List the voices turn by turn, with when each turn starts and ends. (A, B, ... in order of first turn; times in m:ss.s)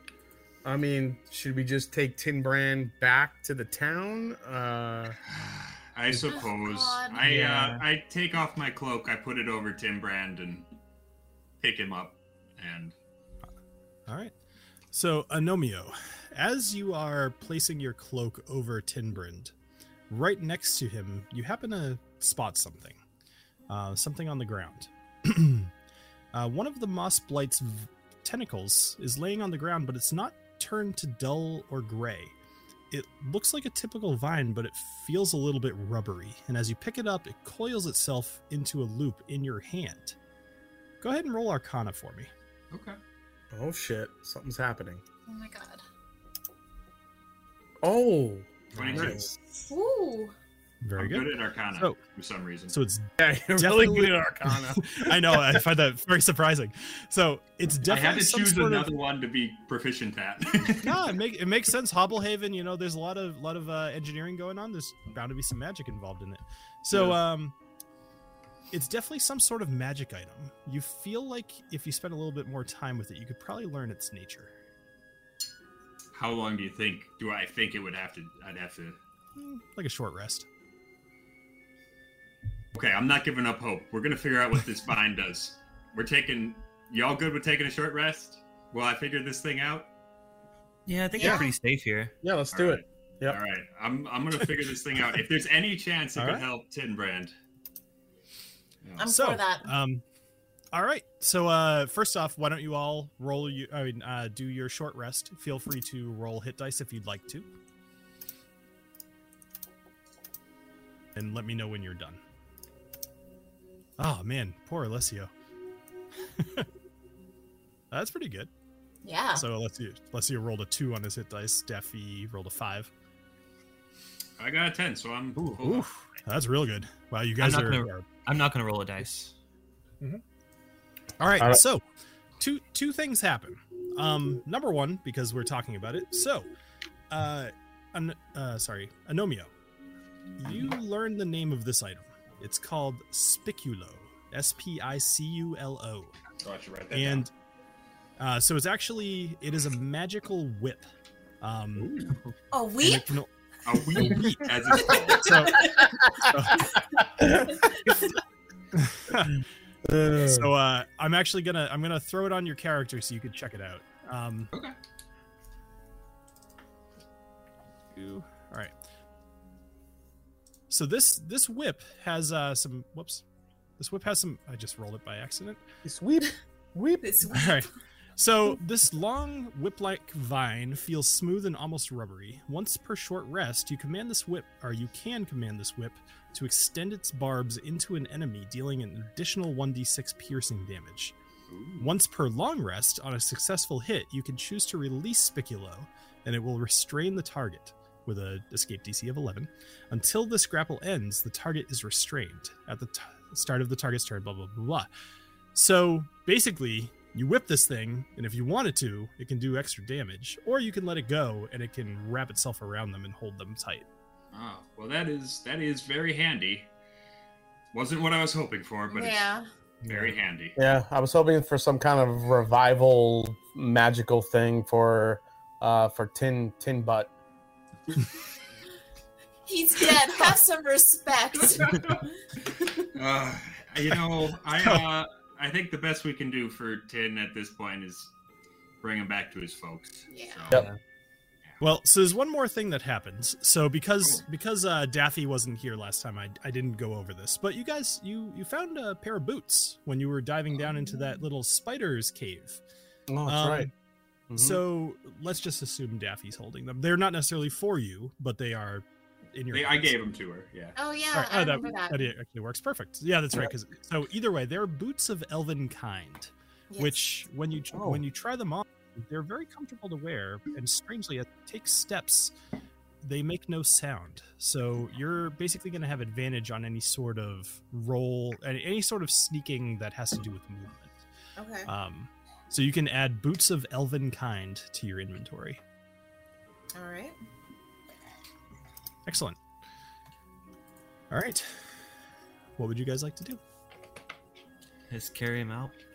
0:00.6-0:05.2 A
0:05.3-0:10.7 B
0:06.3-0:07.2 C
0:07.2-0:07.8 D
0:11.6-0:13.0 B
0:14.1-0:14.3 E
0:14.9-0:19.5 E
0:20.1-0:23.0 E
0:23.7-0:25.7 E
0:26.3-0:32.3 E
0:32.9-0:40.2 E
0:41.0-0:42.3 E
0:42.7-0:43.0 B
0:43.5-0:45.0 A
0:45.3-0:45.8 C
0:47.8-0:49.3 A
0:48.7-0:49.3 B
0:49.7-0:50.4 C
0:50.8-0:52.0 E
0:51.0-0:52.7 B
0:52.7-0:58.9 E
0:53.2-0:55.6 A
0:57.8-1:01.0 B
1:00.7-1:07.6 E
1:06.9-1:07.2 B
1:08.7-1:14.5 E
1:16.1-1:19.0 B
1:19.4-1:20.5 E
1:22.8-1:29.9 B
1:30.9-1:32.2 D
1:31.2-1:31.5 C
1:31.2-1:31.5 A
1:32.2-1:33.4 A
1:32.5-1:37.3 B
1:36.2-1:36.4 E
1:39.0-1:39.7 C
1:39.1-1:40.0 E
1:40.7-1:47.5 E
1:51.2-1:52.2 E
1:54.0-1:55.3 E
1:56.4-1:56.7 E
1:57.9-1:58.5 E
1:59.0-1:59.4 C
1:59.4-2:02.9 E
2:04.4-2:05.9 B
2:05.6-2:08.1 E
2:07.4-2:09.3 D
2:11.2-2:11.8 E
2:12.4-2:16.5 E
2:17.1-2:19.5 E
2:20.4-2:26.2 E
2:26.4-2:27.3 B
2:26.9-2:27.3 E
2:28.2-2:30.9 E
2:31.4-2:31.9 E
2:31.8-2:32.2 B
2:32.5-2:33.1 C
2:32.8-2:36.8 E
2:33.6-2:35.6 B
2:34.9-2:35.9 C
2:35.6-2:36.2 A
2:37.0-2:37.8 A
2:37.6-2:38.0 C
2:38.7-2:39.4 E
2:39.8-2:40.5 A
2:40.2-2:44.5 E
2:47.9-2:48.7 E
2:50.7-2:53.2 E
2:53.8-2:55.6 E
2:55.8-2:57.1 A
2:57.0-2:57.7 C
2:57.3-3:11.1 E
3:11.5-3:11.9 B
3:11.8-3:24.9 E
3:25.6-3:33.9 E
3:34.3-3:36.7 B
3:37.7-3:39.2 B
3:38.9-3:39.5 C
3:39.9-3:40.1 D
3:39.9-3:40.6 B
3:40.6-3:47.1 A
3:49.5-3:52.9 C
3:51.3-3:52.0 B
3:52.9-3:58.1 B
3:54.6-3:54.8 E
3:58.8-4:00.6 B
4:00.1-4:00.5 C
4:01.6-4:12.6 E
4:13.1-4:13.7 A
4:13.3-4:13.7 E
4:14.3-4:14.6 A
4:14.4-4:20.0 E
4:19.5-4:20.8 B
4:20.8-4:22.1 C
4:21.1-4:32.3 E
4:26.7-4:27.1 C
4:27.7-4:28.0 A
4:33.0-4:41.0 E
4:41.4-4:41.7 C
4:41.7-4:45.6 E
4:46.8-4:47.2 C
4:49.1-4:49.4 E
4:51.1-4:51.6 E
4:52.6-4:53.4 E
4:54.9-4:55.8 D